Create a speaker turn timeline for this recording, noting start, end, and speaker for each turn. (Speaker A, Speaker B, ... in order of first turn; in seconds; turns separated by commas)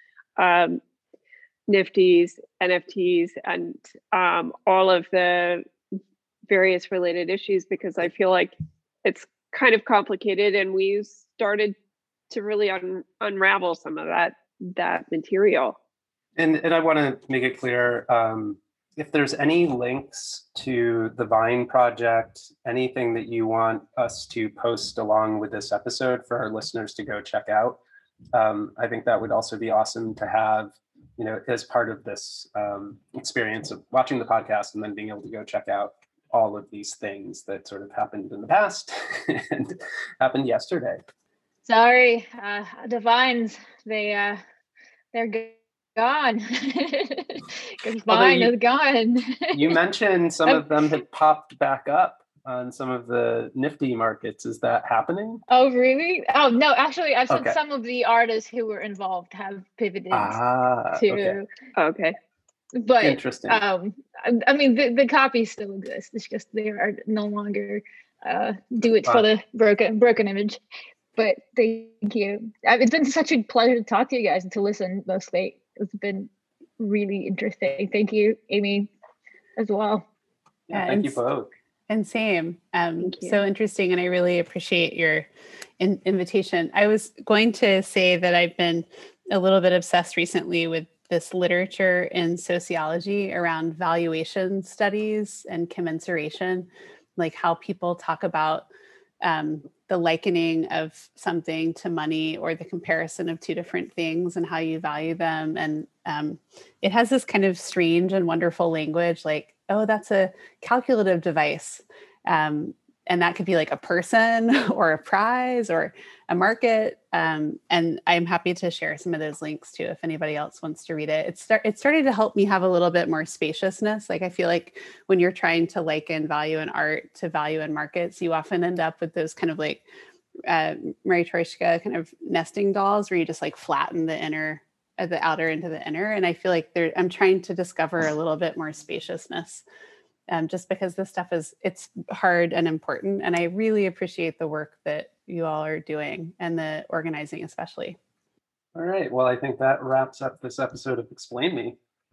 Speaker A: 0.4-0.8, Speaker A: 1.7-5.6, Speaker A: 6.5-11.8, Speaker A: 12.3-15.8, Speaker B: 16.4-27.8, Speaker B: 28.3-41.0, Speaker C: 41.7-44.4, Speaker C: 45.1-49.7, Speaker B: 48.1-48.5, Speaker B: 49.5-55.4, Speaker C: 55.5-60.4, Speaker B: 57.3-57.6, Speaker B: 60.1-61.4, Speaker C: 61.0-61.5, Speaker A: 61.8-62.2, Speaker C: 62.8-70.6, Speaker B: 63.0-63.6, Speaker C: 71.2-78.9, Speaker C: 79.6-80.1, Speaker B: 80.7-81.5, Speaker D: 80.7-81.2, Speaker D: 81.9-85.3, Speaker D: 85.8-98.7, Speaker D: 99.2-129.8, Speaker D: 130.5-139.6, Speaker D: 140.3-148.0, Speaker B: 148.8-151.8